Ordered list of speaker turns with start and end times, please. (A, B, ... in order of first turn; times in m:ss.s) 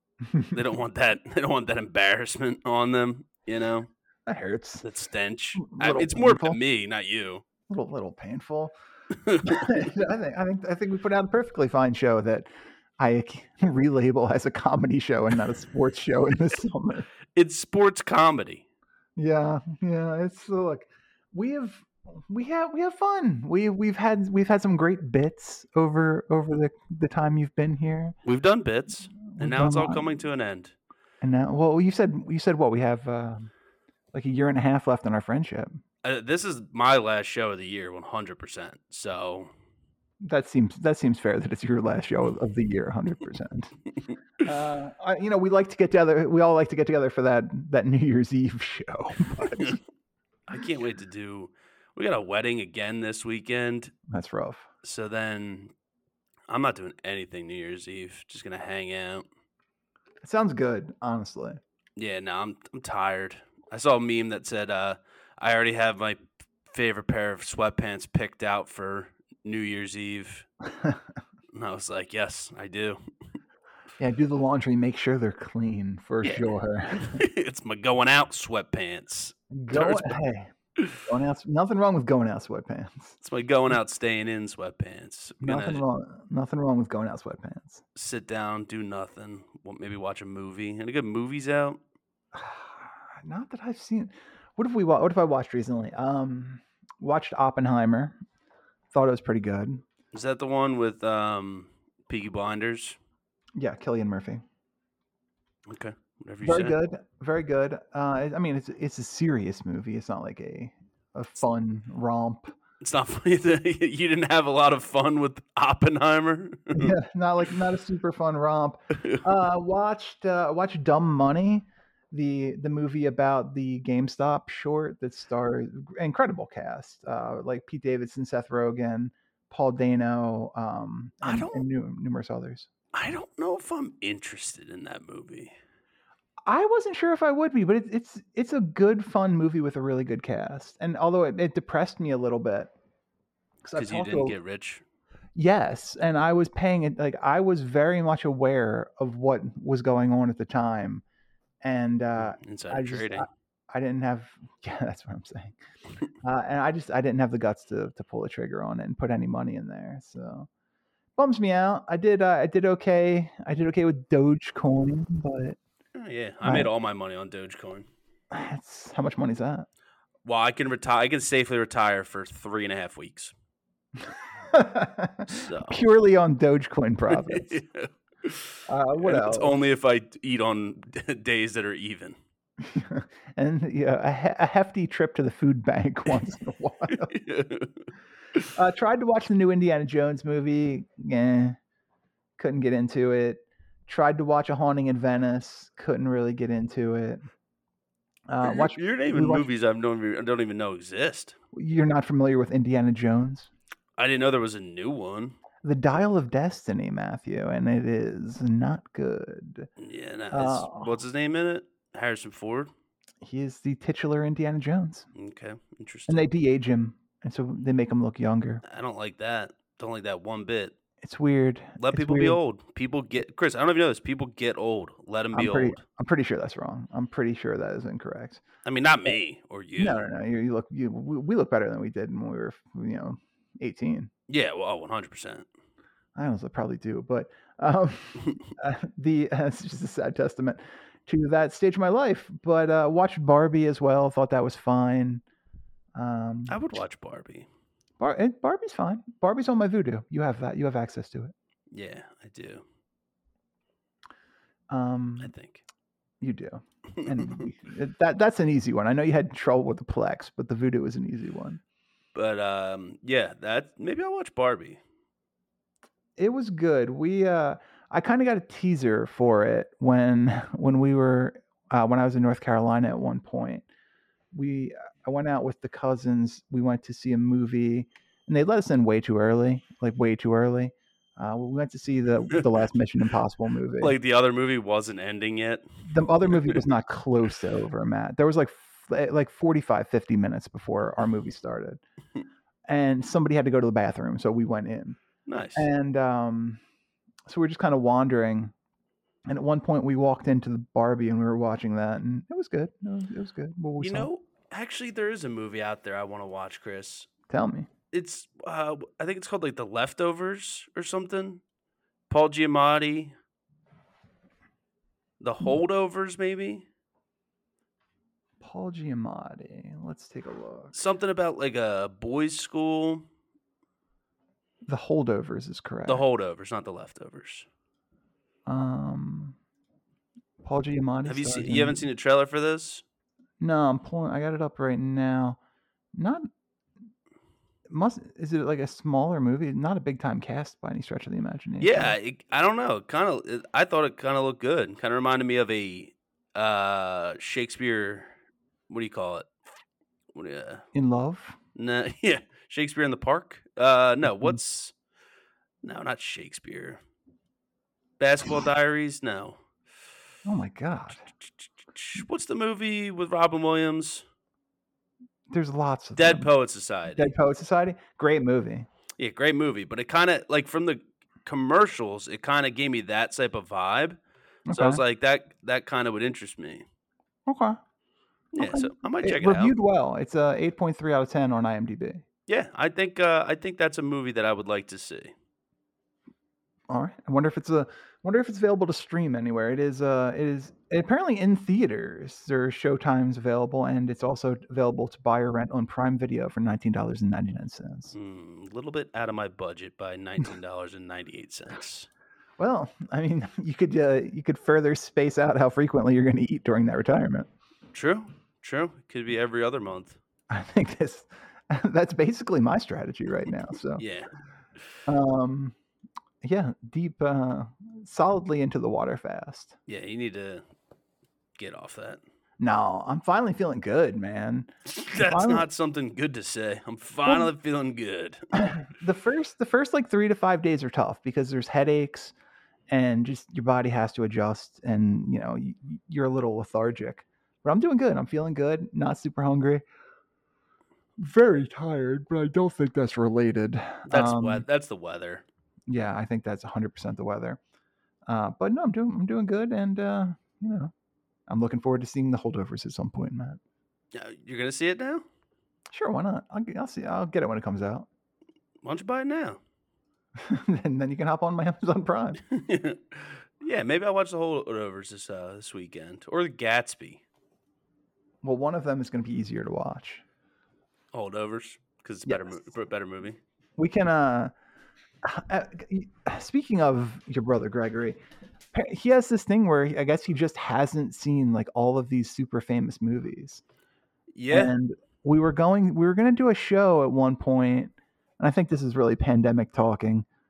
0:00.4-0:03.9 A
0:04.3-0:04.8 B
0:04.8-0:07.4 A
0:05.6-0:06.6 B
0:07.7-0:08.8 B
0:09.2-0:09.7 A
0:09.4-0:17.1 B
0:17.4-0:18.6 A
0:19.2-0:28.2 B
0:28.2-0:30.8 A
0:29.3-0:30.2 B
0:31.2-0:33.5 B
0:34.1-0:35.8 B
0:36.0-0:39.5 A
0:40.2-0:43.7 B
0:44.4-0:49.8 B
0:49.5-0:49.8 A
0:50.5-0:53.9 A
0:54.1-0:54.7 B
0:54.8-0:55.7 A
0:56.5-0:59.2 A
1:00.2-1:01.6 B
1:02.0-1:06.2 A
1:06.7-1:10.5 A
1:10.7-1:11.0 B
1:11.5-1:13.0 A
1:14.0-1:17.2 B
1:16.2-1:20.2 A
1:19.5-1:23.2 B
1:23.2-1:25.8 A
1:25.4-1:27.8 B
1:28.0-1:31.8 A
1:32.4-1:38.2 B
1:38.9-1:39.8 B
1:40.1-1:43.0 A
1:43.6-1:44.4 B
1:45.7-1:46.8 A
1:46.4-1:52.5 B
1:52.8-1:57.0 A
1:56.7-2:12.7 B
2:11.2-2:11.6 A
2:12.9-2:15.5 A
2:16.5-2:22.7 B
2:23.6-2:24.4 B
2:23.8-2:24.8 A
2:25.4-2:31.0 B
2:31.6-2:35.6 B
2:32.3-2:33.3 A
2:36.2-2:40.5 B
2:41.2-2:45.6 B
2:46.0-2:47.9 A
2:46.4-2:46.7 B
2:48.3-2:49.7 B
2:50.2-2:53.3 A
2:54.5-2:57.6 B
2:55.3-2:55.8 A
2:57.1-3:02.2 A
2:58.7-2:59.6 B
3:02.6-3:07.1 B
3:07.0-3:07.9 A
3:08.5-3:11.6 B
3:12.4-3:17.2 B
3:18.3-3:19.5 B
3:18.4-3:21.4 A
3:21.5-3:23.5 B
3:24.0-3:25.4 A
3:25.6-3:29.7 B
3:29.8-3:32.7 A
3:30.3-3:30.9 B
3:33.2-3:35.1 B
3:35.2-3:36.2 A
3:36.1-3:38.6 B
3:38.6-3:40.8 A
3:41.0-3:42.4 B
3:41.8-3:45.8 A
3:45.3-3:48.4 B
3:48.6-3:50.1 A
3:49.8-3:54.1 B
3:54.3-3:55.5 A
3:56.2-4:05.2 B
4:06.0-4:06.8 B
4:06.5-4:07.5 A
4:08.0-4:11.3 B
4:11.7-4:12.6 A
4:14.7-4:15.3 B
4:15.2-4:15.6 A
4:16.2-4:21.6 B
4:17.0-4:17.5 A
4:22.2-4:24.8 A
4:26.2-4:33.7 B
4:34.3-4:44.0 B
4:43.8-4:45.7 A
4:45.9-4:51.8 B
4:46.3-4:46.6 A
4:52.7-4:55.0 B
4:55.3-4:55.7 A
4:55.6-4:56.6 B
4:57.3-4:58.5 B
4:59.3-5:04.1 B
5:03.8-5:07.1 A
5:07.3-5:07.7 B
5:07.9-5:11.4 A
5:12.1-5:13.2 A
5:15.2-5:16.6 A
5:18.4-5:20.8 B
5:20.7-5:23.0 A
5:24.6-5:26.0 B
5:25.9-5:27.5 A
5:28.5-5:29.4 B
5:30.4-5:31.8 B
5:31.0-5:32.8 A
5:33.4-5:35.4 B
5:35.9-5:36.3 B
5:37.7-5:42.0 B
5:41.6-5:48.1 A
5:48.7-5:49.3 A
5:50.1-5:50.6 A
5:50.7-5:51.4 B
5:51.6-5:54.7 A
5:55.6-5:56.8 A
5:58.0-5:59.4 A
6:00.2-6:01.0 B
6:01.6-6:04.0 A
6:05.3-6:06.3 B
6:06.0-6:07.1 A
6:07.0-6:08.7 B
6:09.0-6:14.0 A
6:14.5-6:14.8 B
6:14.5-6:16.6 A
6:17.3-6:17.6 B
6:18.3-6:19.5 A
6:18.4-6:22.0 B
6:22.3-6:25.1 A
6:26.7-6:37.9 B
6:37.9-6:41.9 A
6:42.4-6:47.3 B
6:47.7-6:50.0 A
6:50.3-6:53.8 B
6:53.8-6:54.1 A
6:54.9-6:55.6 B
6:56.2-6:59.6 B
6:59.7-7:00.4 A
7:01.4-7:02.0 A
7:02.4-7:05.5 B
7:04.7-7:08.6 A
7:08.3-7:12.1 B
7:12.7-7:19.6 B
7:21.0-7:24.4 B
7:23.9-7:25.2 A
7:25.7-7:27.4 B
7:28.1-7:30.7 B
7:31.3-7:33.4 B
7:33.9-7:35.0 A
7:35.7-7:37.9 B
7:38.6-7:39.4 A
7:40.2-7:42.2 B
7:42.3-7:47.0 A
7:48.2-7:50.0 B
7:50.9-7:53.2 A
7:53.6-7:54.3 B
7:55.0-7:58.0 B
7:58.5-8:03.4 B
8:04.1-8:04.5 A
8:04.3-8:10.1 B